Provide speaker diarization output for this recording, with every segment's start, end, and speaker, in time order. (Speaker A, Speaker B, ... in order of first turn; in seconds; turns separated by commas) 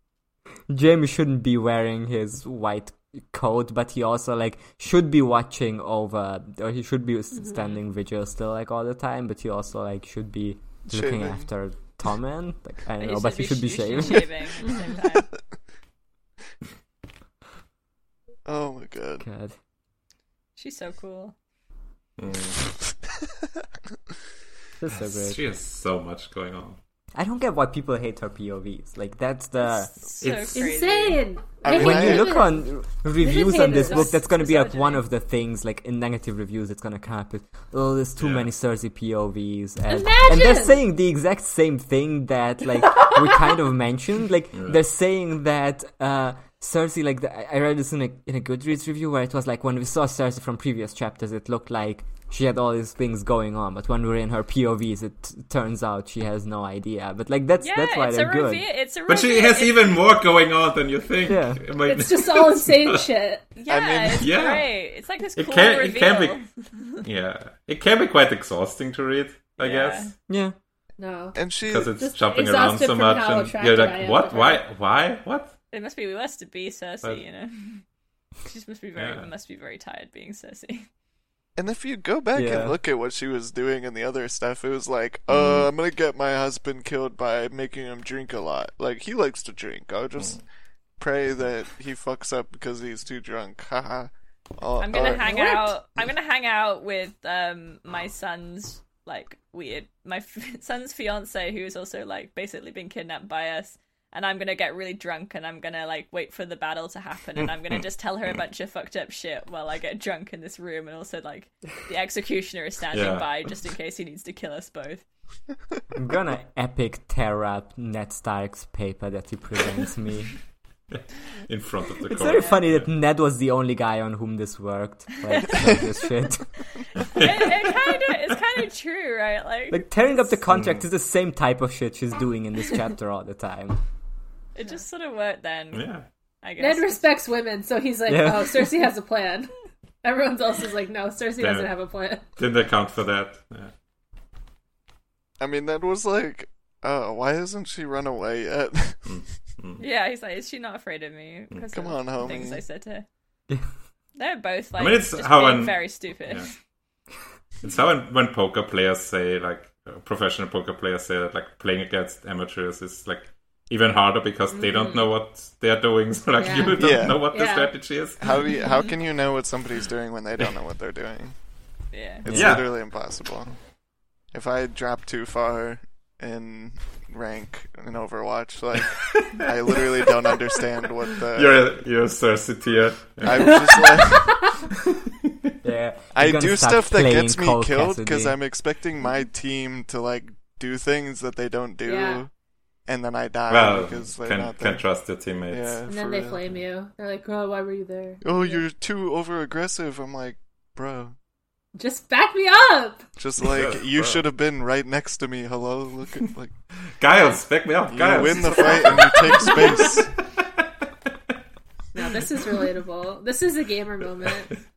Speaker A: 0.7-14.3, Speaker B: 10.9-11.5, Speaker C: 13.0-15.3, Speaker B: 18.4-19.2, Speaker A: 19.2-19.5, Speaker C: 20.6-21.3, Speaker D: 22.2-22.6, Speaker A: 24.8-25.4, Speaker D: 25.1-26.8, Speaker A: 27.1-29.9, Speaker C: 29.6-31.2, Speaker D: 30.2-30.6, Speaker E: 30.6-32.6, Speaker B: 31.6-32.5, Speaker A: 31.7-58.6, Speaker C: 33.2-35.0, Speaker E: 33.3-34.2, Speaker D: 38.2-38.5, Speaker E: 39.9-40.8, Speaker D: 44.5-44.8, Speaker C: 57.6-60.0, Speaker D: 59.1-63.0, Speaker A: 61.2-61.6, Speaker E: 61.8-63.4, Speaker C: 63.5-67.0, Speaker B: 63.7-64.3, Speaker D: 64.2-64.7, Speaker D: 65.3-66.4, Speaker D: 67.0-70.1, Speaker C: 69.6-70.1, Speaker A: 70.3-70.5, Speaker E: 71.0-74.7, Speaker B: 71.3-71.9, Speaker D: 71.6-75.5, Speaker C: 75.7-77.8, Speaker C: 78.4-80.9, Speaker D: 79.0-79.3, Speaker B: 81.6-90.4, Speaker A: 82.3-82.8, Speaker D: 85.3-85.7, Speaker B: 91.0-95.3, Speaker C: 94.8-115.0, Speaker E: 95.0-95.7, Speaker D: 112.9-113.3, Speaker A: 115.9-120.3, Speaker D: 120.9-122.9, Speaker A: 122.1-126.5, Speaker C: 127.1-129.9, Speaker D: 127.1-127.6, Speaker A: 129.7-133.8, Speaker D: 130.5-130.8, Speaker C: 134.5-135.9, Speaker D: 135.7-136.0, Speaker C: 136.4-137.0, Speaker E: 136.6-139.5, Speaker A: 138.1-138.9, Speaker E: 140.0-142.2, Speaker D: 141.4-141.7, Speaker D: 142.4-143.7, Speaker B: 145.4-149.2, Speaker D: 149.1-149.8, Speaker C: 149.8-153.1, Speaker B: 151.7-152.6, Speaker C: 154.2-156.6, Speaker D: 154.8-156.5, Speaker D: 157.6-168.6, Speaker E: 164.5-165.1, Speaker E: 166.4-167.8, Speaker B: 166.7-167.2, Speaker B: 168.2-171.3, Speaker C: 171.9-172.3, Speaker B: 172.2-173.5, Speaker D: 172.3-172.8, Speaker A: 172.3-172.6, Speaker B: 174.3-181.6, Speaker D: 179.0-179.5, Speaker D: 181.3-183.9, Speaker B: 183.2-184.4, Speaker E: 183.7-184.5, Speaker A: 185.6-188.4, Speaker B: 186.1-192.3, Speaker E: 191.8-192.2, Speaker B: 192.8-194.8, Speaker D: 193.5-195.8, Speaker B: 195.5-196.4, Speaker E: 195.9-198.6, Speaker B: 198.2-201.1, Speaker E: 201.8-203.0, Speaker B: 203.2-206.5, Speaker D: 203.5-204.2, Speaker D: 207.0-210.6, Speaker B: 207.9-210.1, Speaker C: 208.8-209.8, Speaker E: 211.9-214.5